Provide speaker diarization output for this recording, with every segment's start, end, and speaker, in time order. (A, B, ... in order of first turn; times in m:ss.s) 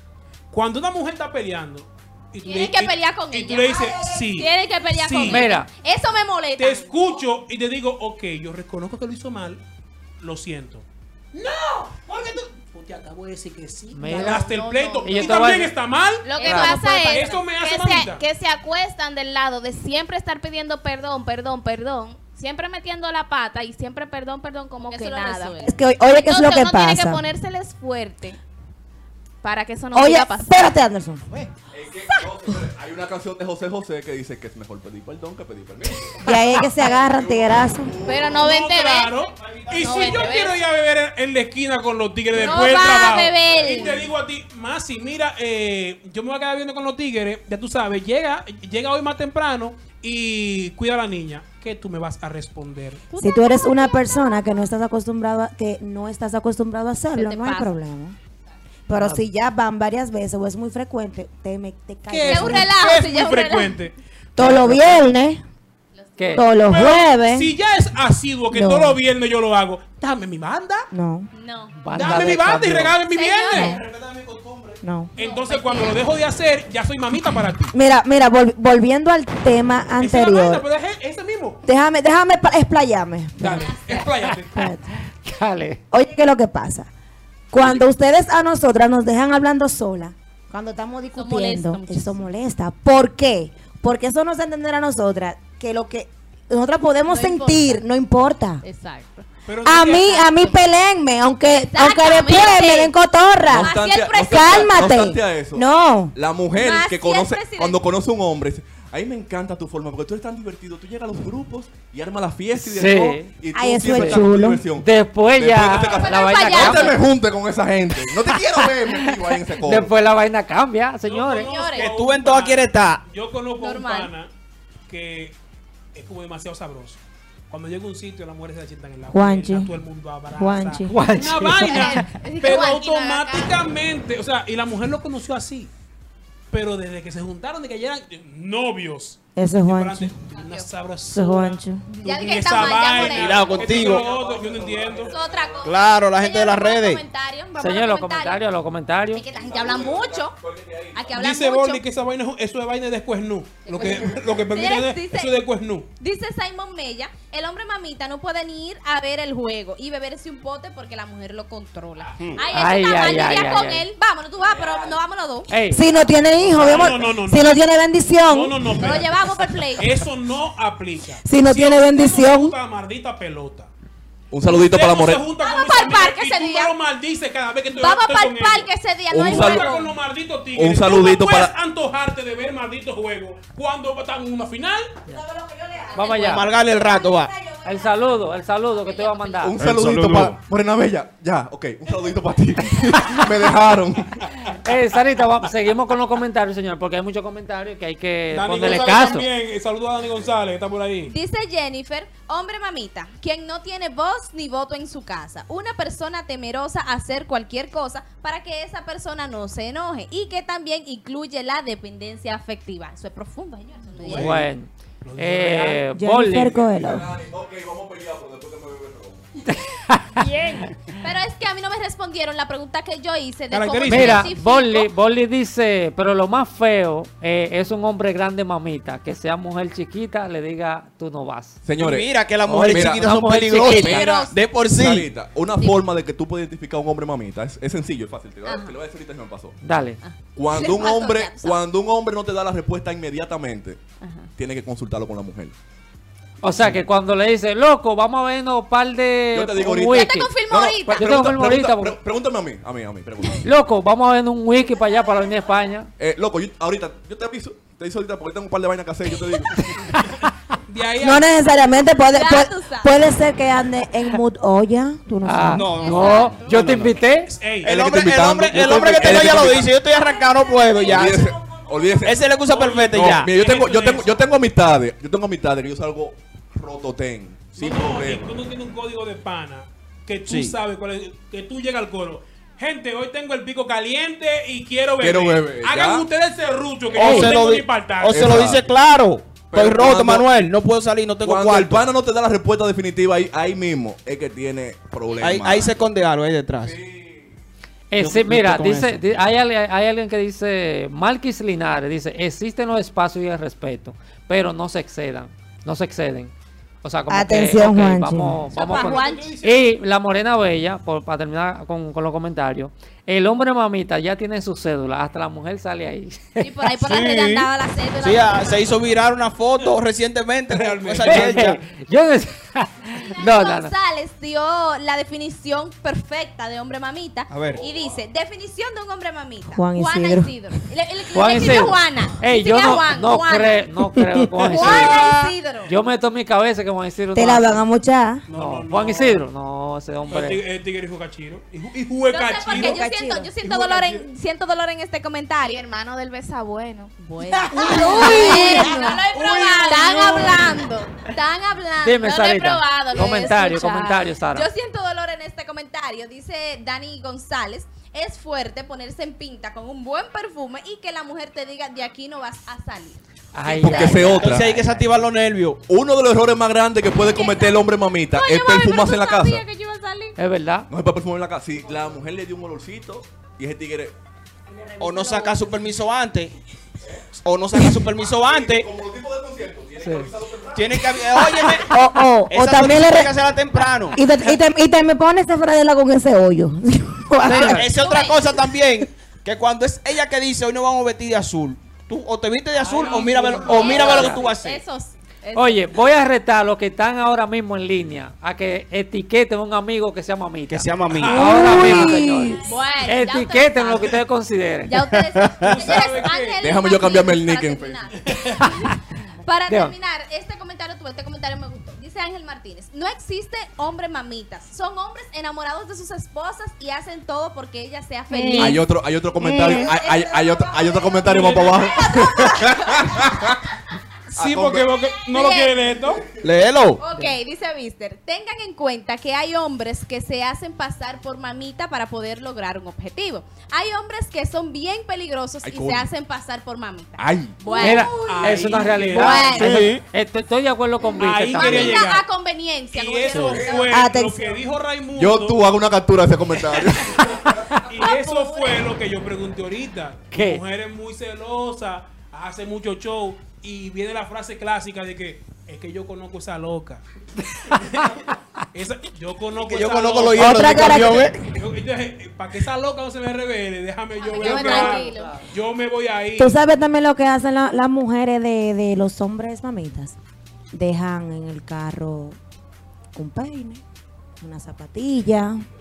0:00.5-0:05.5 A
0:02.4-0:07.2 B
0:05.2-0:05.7 C
0:06.6-0:09.6 A
0:10.2-0:18.2 A
0:13.9-0:15.7 C
0:14.1-0:15.5 D
0:14.5-0:15.3 B
0:16.2-0:17.5 B
0:16.3-0:28.4 D
0:16.4-0:16.7 C
0:24.8-0:25.7 B
0:25.6-0:27.2 E
0:29.4-0:30.7 D
0:29.9-0:31.2 E
0:31.7-0:38.5 F
0:36.2-0:38.0 E
0:38.1-0:38.8 B
0:38.1-0:39.1 D
0:38.3-0:53.0 A
0:39.3-0:40.3 G
0:39.8-0:40.6 D
0:39.8-0:40.4 B
0:42.4-0:44.0 B
0:42.7-0:43.1 D
0:53.1-0:54.4 B
0:53.2-0:58.2 E
0:57.1-0:57.7 B
0:58.9-1:02.7 E
0:59.0-0:59.2 C
1:02.1-1:03.9 A
1:02.3-1:03.8 B
1:04.4-1:05.4 E
1:04.4-1:04.7 C
1:05.9-1:06.4 B
1:06.2-1:06.4 C
1:06.3-1:07.5 E
1:06.6-1:10.9 A
1:08.5-1:09.0 E
1:10.9-1:11.3 E
1:11.3-1:12.3 B
1:11.8-1:13.0 C
1:11.9-1:13.8 A
1:13.1-1:13.8 B
1:13.5-1:13.8 E
1:13.6-1:14.8 G
1:14.8-1:15.1 E
1:15.1-1:17.7 A
1:15.2-1:16.0 B
1:17.7-1:20.6 E
1:20.0-1:21.6 A
1:21.6-1:23.8 E
1:23.4-1:24.7 A
1:23.4-1:24.0 B
1:24.5-1:24.9 E
1:25.1-1:25.8 C
1:25.9-1:26.9 E
1:27.5-1:38.6 E
1:31.1-1:32.2 B
1:37.1-1:37.8 B
1:38.6-1:39.2 B
1:39.4-1:40.3 A
1:39.6-1:46.1 E
1:40.0-1:40.6 B
1:41.7-1:42.9 B
1:43.5-1:45.0 B
1:43.5-2:00.0 F
1:46.5-1:47.8 B
1:52.6-1:53.3 C
1:53.5-1:54.6 E
1:53.8-1:57.0 C
1:55.6-1:56.1 A
1:55.8-1:57.0 B
1:58.6-2:01.5 C
2:01.0-2:04.3 A
2:01.3-2:01.9 B
2:01.7-2:03.0 G
2:03.6-2:04.1 B
2:04.9-2:05.3 A
2:05.9-2:15.7 A
2:09.1-2:09.8 E
2:10.3-2:11.0 E
2:10.9-2:12.0 C
2:11.6-2:13.5 B
2:12.4-2:12.7 D
2:16.5-2:25.1 A
2:19.4-2:20.1 E
2:20.3-2:20.7 B
2:21.1-2:21.8 E
2:21.9-2:23.9 B
2:22.9-2:24.0 G
2:23.3-2:25.8 F
2:25.0-2:28.4 B
2:25.6-2:27.0 G
2:27.6-2:29.3 C
2:29.1-2:30.3 B
2:29.3-2:31.2 F
2:30.9-2:31.8 B
2:31.1-2:35.9 A
2:33.6-2:35.4 B
2:36.0-2:45.5 B
2:42.5-2:43.8 C
2:44.4-2:45.0 F
2:45.5-2:45.8 C
2:45.7-2:48.8 E
2:46.5-2:47.6 A
2:48.3-2:49.1 A
2:48.8-2:50.0 B
2:49.8-2:53.7 A
2:51.2-2:52.5 E
2:54.3-2:55.3 F
2:54.4-2:58.7 A
2:55.4-2:56.7 B
2:57.7-2:59.9 B
2:59.1-2:59.7 F
2:59.2-3:05.0 A
3:00.5-3:01.5 F
3:05.0-3:08.3 E
3:05.9-3:06.5 C
3:06.1-3:07.3 G
3:07.6-3:09.6 C
3:08.7-3:09.5 B
3:09.4-3:14.3 F
3:09.6-3:10.4 G
3:14.5-3:19.3 C
3:18.3-3:21.1 A
3:21.1-3:34.4 B
3:34.0-3:34.4 A
3:34.1-3:36.5 C
3:35.0-3:35.8 A
3:35.9-3:37.1 E
3:36.3-3:39.2 F
3:39.5-3:40.3 C
3:40.2-3:44.9 B
3:43.5-3:44.3 A
3:43.9-3:51.6 C
3:51.6-3:59.6 F
3:51.8-3:55.1 G
3:52.5-3:54.1 C
3:53.6-3:54.3 B
3:54.0-3:54.3 D
3:58.4-3:58.7 B
3:59.6-4:00.0 C
4:00.0-4:01.6 B
4:00.3-4:03.8 F
4:04.0-4:04.3 B
4:04.4-4:05.5 F
4:06.4-4:12.0 C
4:06.6-4:06.8 F
4:09.3-4:13.5 F
4:09.8-4:11.2 B
4:13.4-4:15.9 C
4:16.0-4:19.9 F
4:19.6-4:20.3 C
4:20.6-4:21.3 A
4:21.0-4:25.8 E
4:22.1-4:22.9 B
4:25.2-4:27.3 C
4:25.5-4:27.0 G
4:25.8-4:26.5 B
4:25.9-4:26.3 D
4:27.2-4:27.8 A
4:27.6-4:31.2 G
4:27.6-4:29.8 F
4:30.0-4:32.2 E
4:30.8-4:38.3 F
4:32.0-4:33.3 G
4:32.4-4:34.2 A
4:37.5-4:48.4 A
4:40.3-4:40.6 G
4:45.0-4:46.1 F
4:46.9-4:51.9 G
4:47.0-4:47.2 C
4:48.1-4:48.7 F
4:49.5-4:50.2 F
4:51.2-4:55.8 F
4:55.2-4:56.8 G
4:56.6-4:57.3 F
4:57.9-5:06.3 C
4:58.0-4:59.0 G
5:06.8-5:16.5 C
5:07.1-5:08.4 E
5:08.5-5:09.3 B
5:08.6-5:09.7 A
5:16.4-5:18.8 B
5:16.8-5:17.5 G
5:18.0-5:21.6 G
5:20.5-5:21.5 A
5:21.0-5:23.7 C
5:22.9-5:33.6 B
5:27.3-5:27.6 G
5:27.4-5:28.0 F
5:29.5-5:30.3 E
5:31.1-5:35.1 C
5:34.0-5:34.5 E
5:34.4-5:35.7 B
5:34.6-5:35.3 G
5:35.7-5:37.6 C
5:37.1-5:38.2 E
5:38.3-5:39.3 A
5:38.3-5:40.4 C
5:40.0-5:42.8 A
5:42.1-5:45.6 B
5:42.5-5:43.3 E
5:43.4-5:44.1 A
5:45.4-5:50.6 D
5:47.1-6:03.0 B
5:47.3-5:49.0 E
5:47.9-5:50.6 A
5:51.8-5:54.5 C
6:03.3-6:04.6 C
6:03.4-6:04.6 F
6:03.6-6:05.6 G
6:03.9-6:04.4 B
6:05.7-6:09.4 F
6:07.0-6:10.1 B
6:08.2-6:10.1 D
6:10.2-6:10.7 C
6:10.7-6:13.9 F
6:14.8-6:16.3 G
6:14.8-6:15.3 E
6:17.2-6:18.7 G
6:17.9-6:20.9 F
6:19.8-6:20.1 C
6:20.5-6:21.8 G
6:21.5-6:23.1 E
6:22.3-6:24.0 G
6:23.9-6:27.7 E
6:27.2-6:27.7 C
6:27.3-6:34.6 G
6:27.7-6:28.2 B
6:32.7-6:34.2 C
6:32.7-6:35.6 B
6:33.4-6:33.9 D
6:35.3-6:44.8 C
6:40.5-6:41.3 G
6:40.9-6:41.7 A
6:41.0-6:42.4 E
6:42.4-6:44.0 B
6:44.6-6:58.6 B
6:44.8-6:45.8 G
6:45.5-6:46.4 A
6:45.8-6:47.9 F
6:48.0-6:48.5 A
6:48.4-6:48.7 C
6:49.5-6:49.7 C
6:58.1-6:58.6 E
6:58.4-7:03.5 F
6:59.2-6:59.9 E
6:59.3-6:59.6 G
6:59.4-7:02.9 B
7:00.7-7:01.3 E
7:04.1-7:06.0 A
7:04.1-7:04.7 F
7:05.0-7:05.6 B
7:06.2-7:06.8 G
7:06.8-7:19.7 B
7:15.4-7:15.9 F
7:17.0-7:17.5 F
7:17.4-7:17.7 D
7:17.6-7:21.8 C
7:17.9-7:19.5 A
7:19.3-7:19.8 G
7:21.0-7:22.0 A
7:21.3-7:23.8 B
7:22.7-7:25.4 A
7:23.1-7:23.4 C
7:23.3-7:23.6 F
7:23.7-7:24.4 E
7:24.9-7:27.5 F
7:27.6-7:36.8 A
7:27.7-7:28.6 B
7:30.1-7:30.4 C
7:37.5-7:37.8 A
7:38.5-7:46.3 A
7:39.3-7:41.3 G
7:40.1-7:41.1 E
7:44.0-7:45.1 B
7:44.1-7:45.2 D
7:44.2-7:45.2 C
7:46.2-7:50.0 E
7:50.5-7:52.2 E
7:52.9-7:53.6 E
7:54.2-7:55.4 E